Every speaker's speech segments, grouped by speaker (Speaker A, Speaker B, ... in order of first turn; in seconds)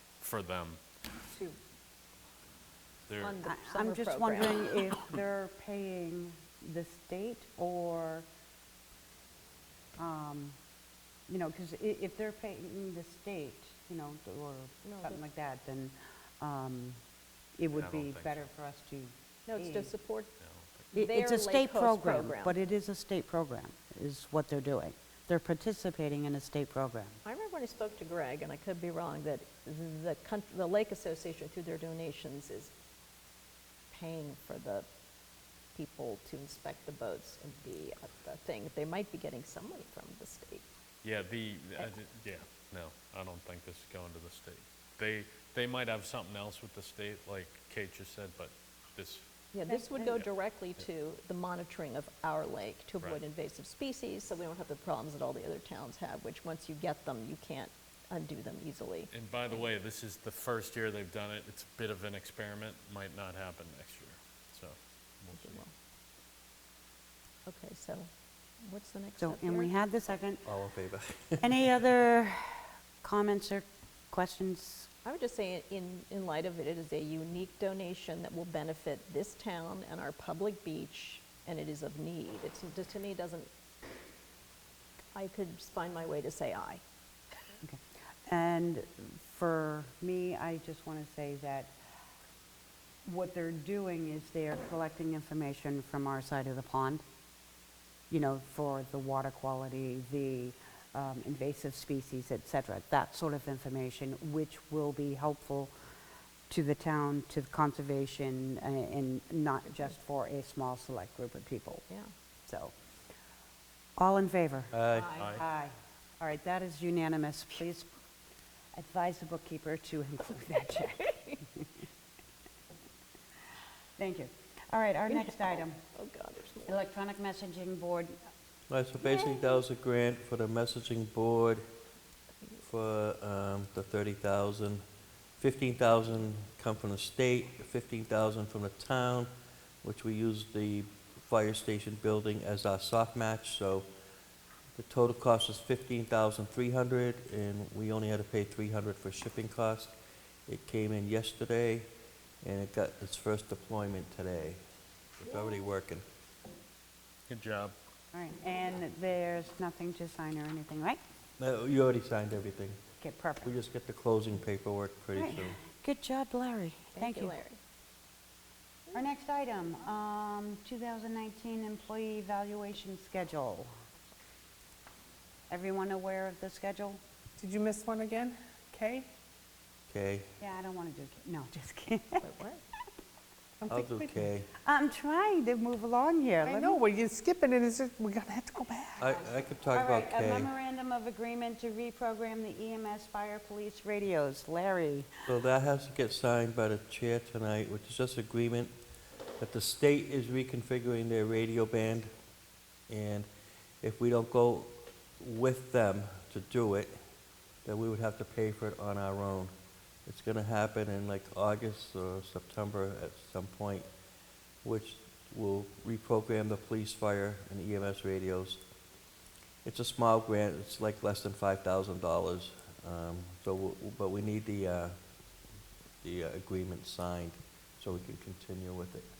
Speaker A: 0.2-0.8, 3.1-3.4, 17.7-18.5, 20.4-20.9, 41.0-49.2, 59.1-65.6, 115.2-115.4, 157.3-157.7
Speaker B: 1.3-1.6, 3.2-4.8, 14.8-15.2, 19.5-20.3, 20.9-22.6, 27.2-32.7, 33.9-34.9, 35.7-40.6, 49.5-59.6, 65.3-65.7, 67.5-69.7, 75.0-83.5, 85.1-86.8, 114.9-115.4, 125.1-126.8, 129.0-129.6, 166.9-167.6, 182.2-182.6
Speaker C: 3.4-8.2, 10.0-10.6, 11.3-17.0, 17.6-19.9, 20.9-27.2, 69.2-70.4, 71.4-74.9, 87.6-91.7, 93.0-97.0, 98.1-105.7, 106.5-111.8, 112.5-112.7, 114.0-114.7, 115.2-117.9, 118.7-121.7, 124.0-125.8, 126.7-128.3, 158.1-161.0, 163.0-163.5, 165.2-167.4, 168.9-173.7, 175.5-177.0, 180.4-182.2, 184.6-186.8, 189.7-195.1
Speaker D: 70.4-71.6, 114.7-115.2, 128.7-131.6, 132.6-134.8, 135.4-139.3, 139.8-143.9, 144.8-149.9, 150.5-151.9, 152.4-154.6, 155.2-156.0, 161.4-162.8, 163.4-165.6, 179.9-180.3, 183.7-184.5, 189.0-190.5, 195.3-198.7, 199.4-202.1, 202.9-203.3, 203.8-206.9, 207.6-209.5, 210.1-213.8, 214.6-218.6, 219.6-225.0, 226.0-229.1
Speaker E: 177.4-179.1, 183.6-184.3, 186.4-189.1